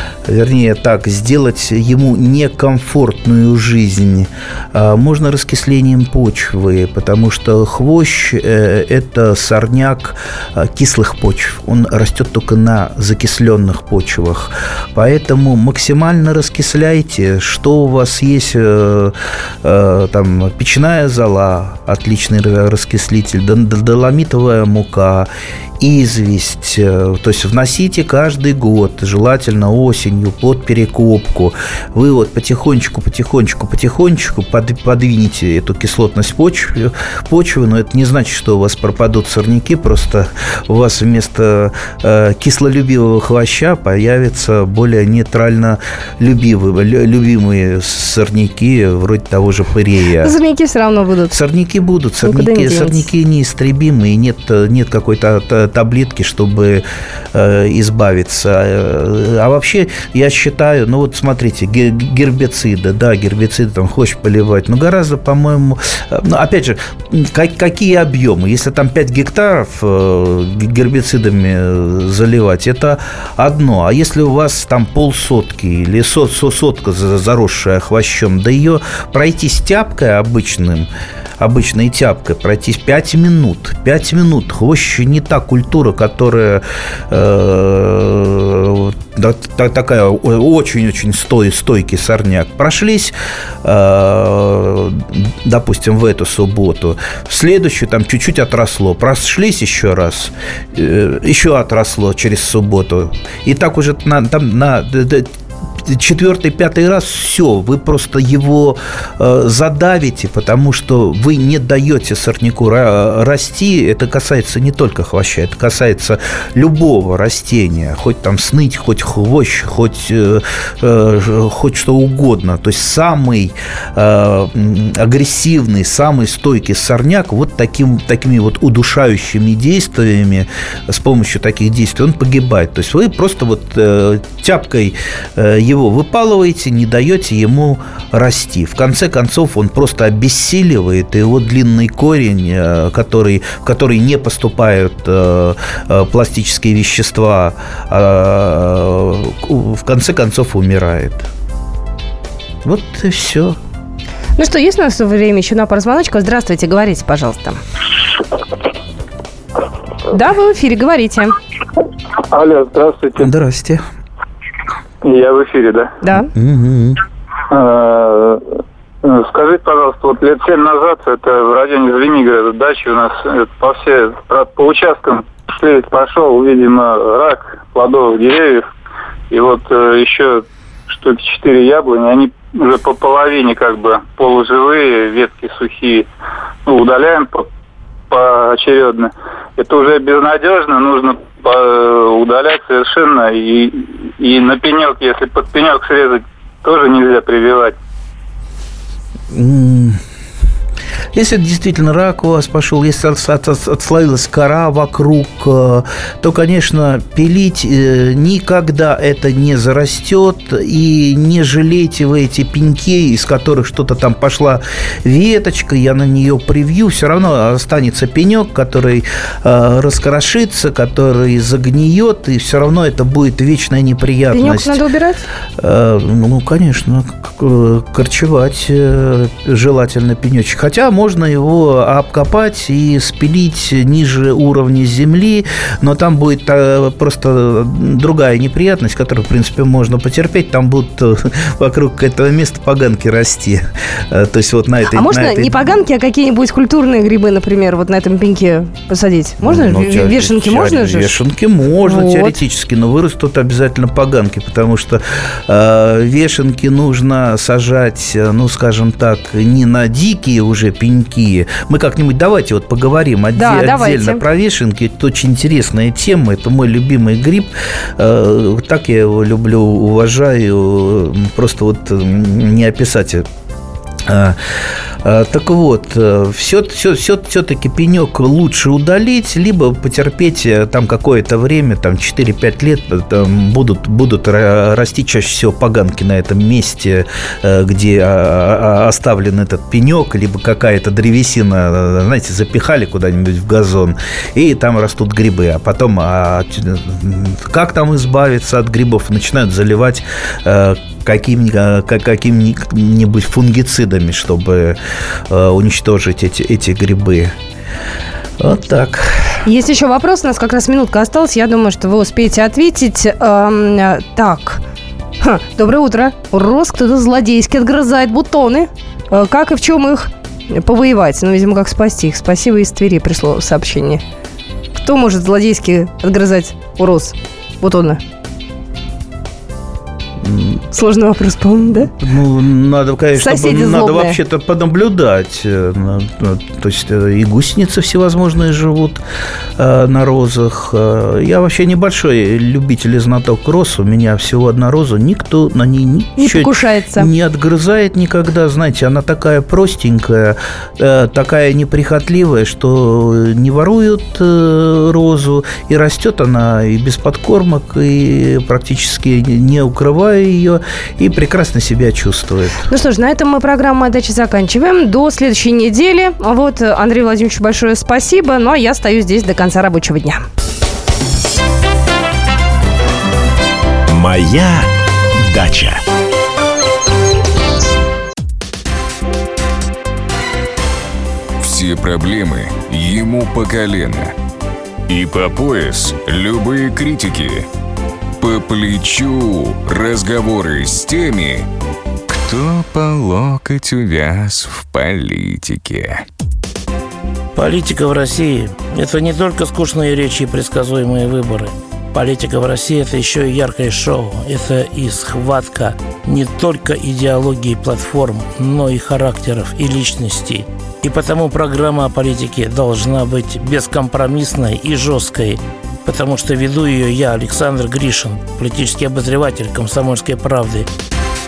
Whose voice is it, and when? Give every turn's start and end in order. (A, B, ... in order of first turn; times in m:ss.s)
0:00.3-0:50.3 A
0:50.2-0:51.4 B
0:51.3-2:31.3 A
0:52.2-0:53.1 B
2:32.6-2:33.6 A
2:34.4-2:37.6 B
2:40.1-2:41.4 B
2:42.3-2:43.3 C
2:43.2-2:43.8 A
2:45.0-2:46.0 C
2:46.0-2:46.3 B
2:46.3-2:47.0 A
2:47.5-2:48.4 C
2:49.0-2:58.7 C
2:59.3-3:06.1 C
3:06.7-3:07.5 C
3:08.1-3:17.8 C
3:19.3-3:20.0 A
3:21.1-3:44.8 A
3:44.3-3:45.2 B
3:45.6-4:05.8 A
4:04.9-4:11.2 B
4:09.4-4:33.3 A
4:11.8-4:12.4 B
4:23.4-4:24.2 B
4:34.1-4:34.4 A
4:35.0-5:07.4 A
5:08.4-5:09.4 A
5:09.4-5:14.6 B
5:15.2-5:24.0 B
5:24.8-5:28.0 B
5:30.2-5:30.6 A
5:30.7-5:31.9 B
5:31.8-5:39.0 A
5:33.2-5:34.2 B
5:39.6-6:02.7 A
5:46.2-5:47.1 B
6:02.7-6:10.2 B
6:13.9-6:15.8 D
6:21.4-6:24.1 E
6:24.9-6:27.5 E
6:28.2-6:31.5 E
6:32.1-6:36.0 E
6:37.4-7:00.7 F